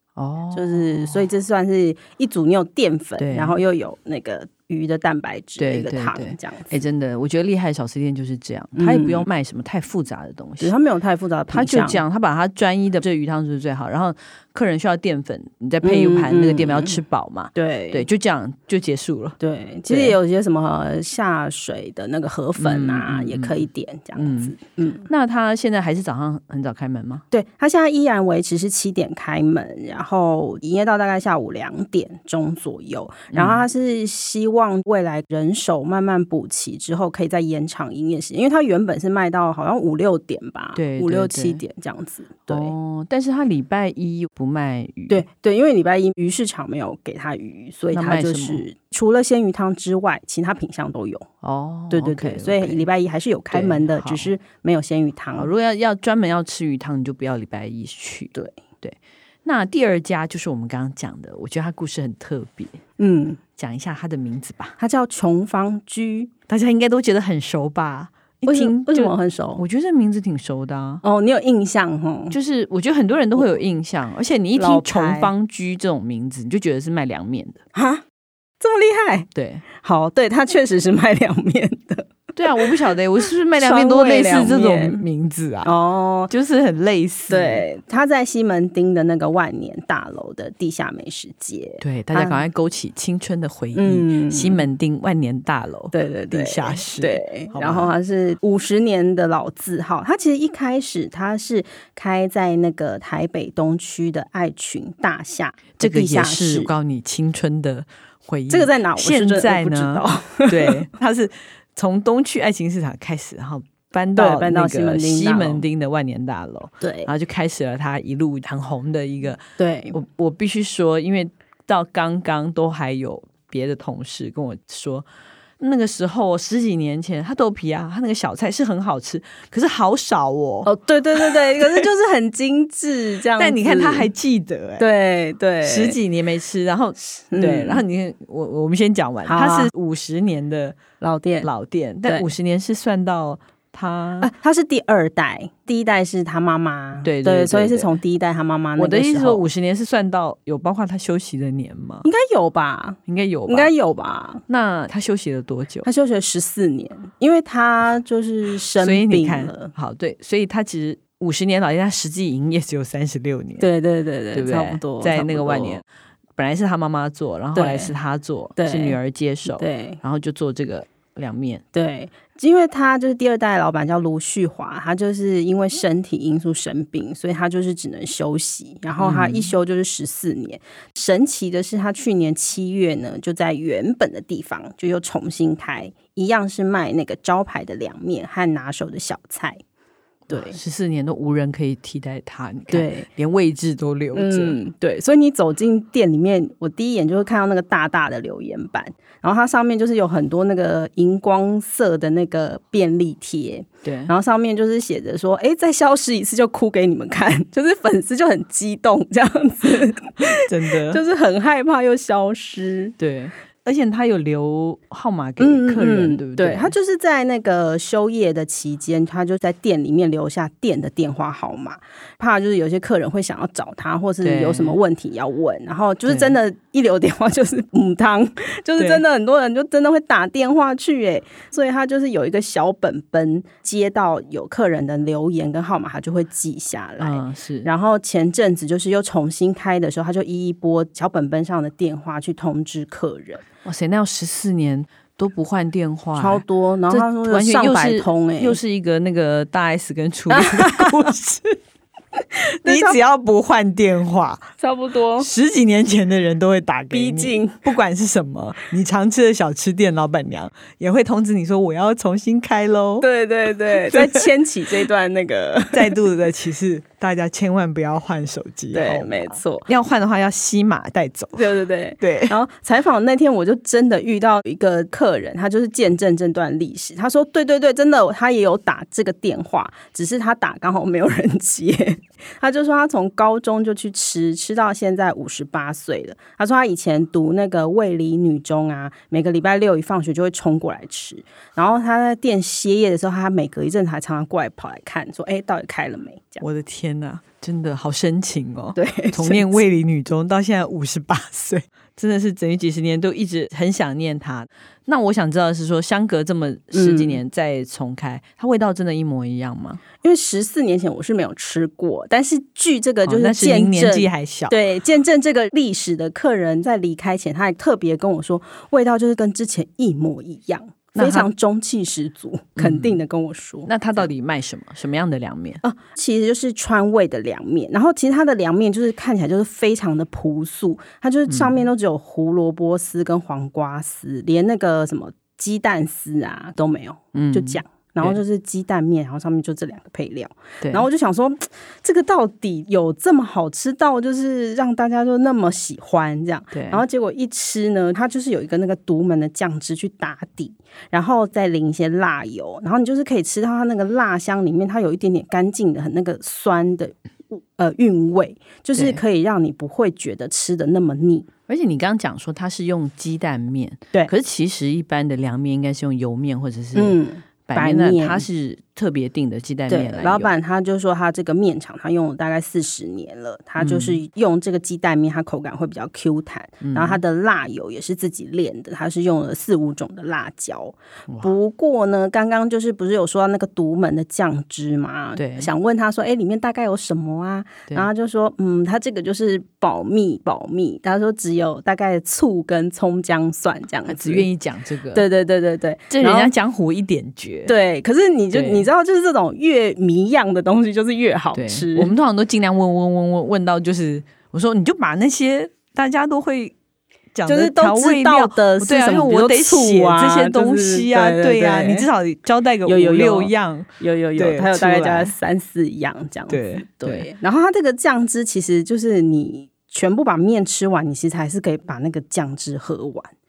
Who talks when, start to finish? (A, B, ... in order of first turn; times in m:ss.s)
0:00.2-0:01.2 A
0:00.5-0:06.8 B
0:03.2-0:03.6 A
0:05.6-0:10.7 A
0:08.8-0:09.3 B
0:10.6-0:12.0 B
0:11.5-0:20.2 A
0:15.8-0:17.0 B
0:17.6-0:18.1 B
0:19.4-0:25.1 B
0:22.6-0:23.6 A
0:24.2-0:24.6 A
0:25.1-0:27.2 A
0:27.3-0:42.7 B
0:33.3-0:33.6 A
0:40.8-0:41.6 A
0:42.5-0:45.2 A
0:45.1-0:51.3 B
0:47.9-0:48.6 A
0:51.4-0:52.9 A
0:51.9-0:55.5 B
0:53.5-0:54.3 A
0:55.4-1:02.8 A
1:03.0-1:03.4 B
1:03.6-1:04.8 A
1:04.8-1:06.3 B
1:06.5-1:11.0 A
1:08.5-1:09.6 B
1:11.0-1:12.4 B
1:12.3-1:17.6 A
1:14.6-1:15.3 B
1:17.8-1:18.0 B
1:18.6-1:25.0 B
1:19.4-1:19.6 A
1:22.4-1:25.7 A
1:25.6-1:26.3 B
1:26.3-1:27.7 A
1:27.3-1:32.4 B
1:31.8-1:37.9 A
1:33.8-1:34.6 B
1:35.9-1:46.7 B
1:45.8-1:59.4 A
1:48.5-1:50.9 B
1:54.2-1:55.6 B
1:56.8-1:57.1 B
1:59.6-2:00.0 B
1:59.9-2:05.1 A
2:05.6-2:10.7 A
2:10.6-2:14.1 B
2:11.3-2:11.9 A
2:13.4-2:14.9 A
2:14.8-2:16.0 B
2:15.6-2:20.8 A
2:17.1-2:17.8 B
2:19.2-2:19.7 B
2:21.0-2:21.5 B
2:21.4-2:24.3 A
2:24.2-2:29.5 B
2:27.0-2:27.9 A
2:28.8-2:32.1 A
2:32.0-2:34.4 B
2:33.1-2:33.7 A
2:34.5-2:35.9 A
2:35.8-2:39.7 B
2:38.8-2:43.7 A
2:43.6-2:45.8 B
2:44.3-2:45.8 A
2:46.4-2:51.6 A
2:47.6-2:47.9 B
2:48.6-2:50.0 B
2:51.7-3:09.6 B
2:59.0-2:59.5 A
3:10.3-3:14.6 A
3:10.3-3:10.6 B
3:12.7-3:13.1 B
3:14.1-3:33.0 B
3:23.8-3:24.1 A
3:30.2-3:31.0 A
3:33.0-3:36.7 A
3:35.4-4:03.4 B
3:44.2-3:44.8 A
3:46.1-3:46.4 A
3:48.8-3:49.0 A
3:57.0-3:57.7 A
4:03.6-4:11.6 A
4:06.2-4:08.6 B
4:10.3-4:11.0 B
4:12.6-4:13.0 B
4:12.6-4:14.5 A
4:14.6-4:15.3 B
4:15.2-4:23.1 A
4:16.9-4:17.6 B
4:23.0-4:25.9 B
4:23.7-4:24.3 A
4:25.7-4:31.5 A
4:28.7-4:29.7 B
4:31.4-4:56.4 B
4:32.0-4:32.4 A
4:56.4-5:09.8 A
4:58.8-4:59.6 B
5:06.7-5:07.2 B
5:10.0-5:23.7 B
5:13.0-5:14.6 A
5:21.0-5:21.3 A
5:22.6-5:23.0 A
5:23.7-5:25.6 A
5:25.6-6:01.3 B
5:31.3-5:31.6 A
5:37.1-5:38.2 A
5:40.6-5:40.9 A
5:46.5-5:46.8 A
5:58.8-5:59.0 A
6:01.5-6:10.3 A
6:06.7-6:08.2 B
6:09.7-6:34.3 B
6:13.6-6:14.0 A
6:16.6-6:17.0 A
6:25.2-6:25.5 A
6:33.9-6:35.1 A
6:34.9-6:36.3 B
6:35.9-6:37.5 A
6:37.5-6:41.9 B
6:38.3-6:38.7 A
6:41.3-6:46.6 A
6:47.1-6:55.1 A
6:47.3-6:51.9 B
6:52.7-7:03.1 B
6:56.3-6:57.1 A